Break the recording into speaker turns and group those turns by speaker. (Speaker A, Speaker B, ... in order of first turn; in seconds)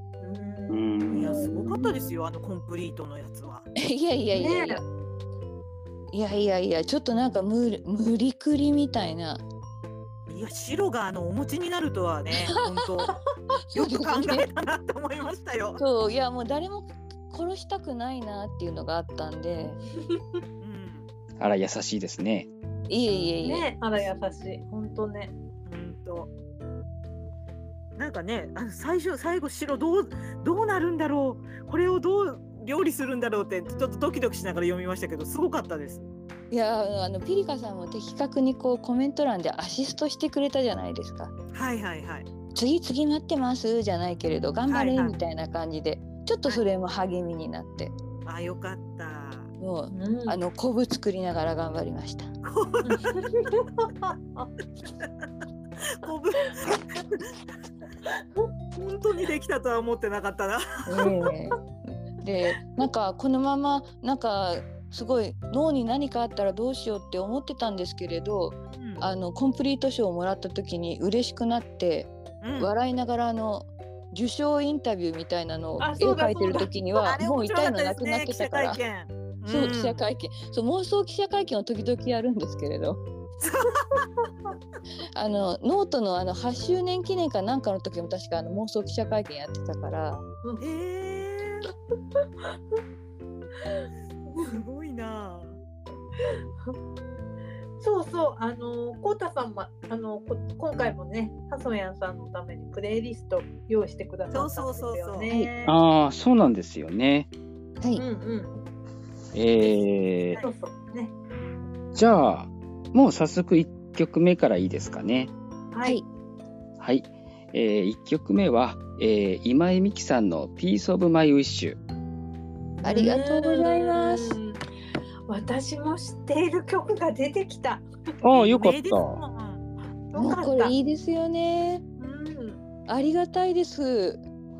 Speaker A: 0.2-1.5, 4.3-4.8, 23.4-25.3, 49.9-50.4, 52.8-54.5, 75.8-76.7, 96.3-96.7, 97.8-105.8, 107.9-108.5, 110.3-111.1, 115.7-116.0, 122.8-124.6, 125.3-127.8, 130.1-130.8, 132.0-132.6
Speaker B: 0.7-1.9, 21.4-22.5, 105.6-107.3, 109.3-110.4, 111.9-115.3, 116.8-121.8, 128.2-129.2
Speaker C: 1.1-3.7, 10.3-13.1, 13.7-15.8, 20.6-21.1, 25.6-26.3, 28.0-36.1, 41.5-42.2, 44.7-45.2, 48.2-49.5, 52.4-53.2, 56.0-57.3, 58.7-61.0, 68.7-69.0, 72.4-72.7, 77.0-80.0, 83.4-84.0, 90.6-91.7, 94.4-95.6, 104.3-105.3, 128.3-129.7
Speaker D: 3.8-4.8, 6.1-9.4, 12.4-13.1, 13.7-14.4, 15.8-19.8, 22.9-23.6, 36.5-41.3, 42.5-47.9, 49.6-52.3, 60.9-61.6, 62.2-78.8, 79.5-83.0, 85.1-90.2, 122.8-124.3, 130.1-131.8, 132.9-134.2